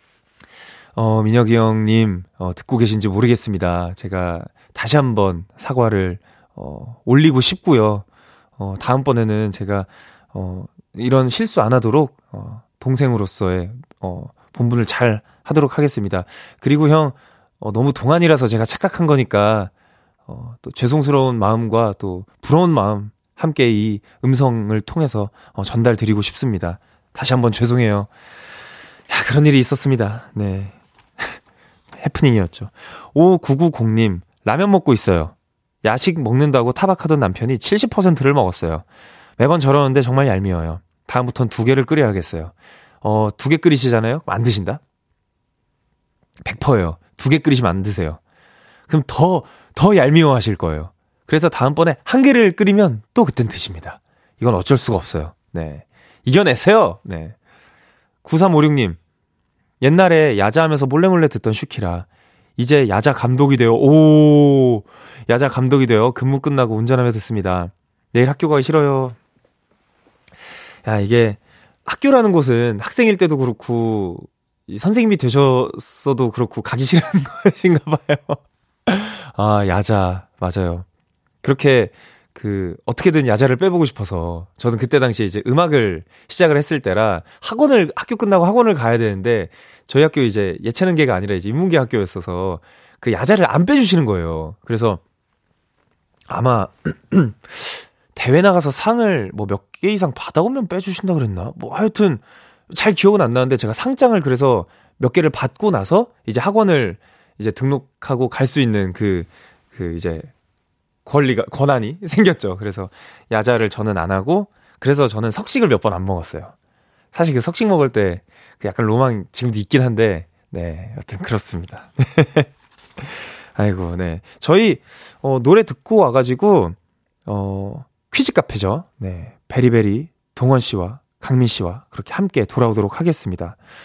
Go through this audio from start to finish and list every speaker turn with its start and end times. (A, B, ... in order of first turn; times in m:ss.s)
0:01.0-0:08.0 A
0:08.6-0:19.7 A
0:20.3-0:28.1 A
0:29.1-0:31.4 A
0:32.0-0:38.8 A
0:39.4-0:44.8 A
0:46.4-0:48.2 A
0:48.9-0:57.3 A
0:58.2-0:59.0 A
0:59.8-1:02.0 A
1:02.6-1:09.2 A
1:10.8-1:20.8 A
1:21.4-1:35.0 A
1:36.3-1:50.3 A
1:51.0-1:56.5 A
1:57.1-2:13.6 A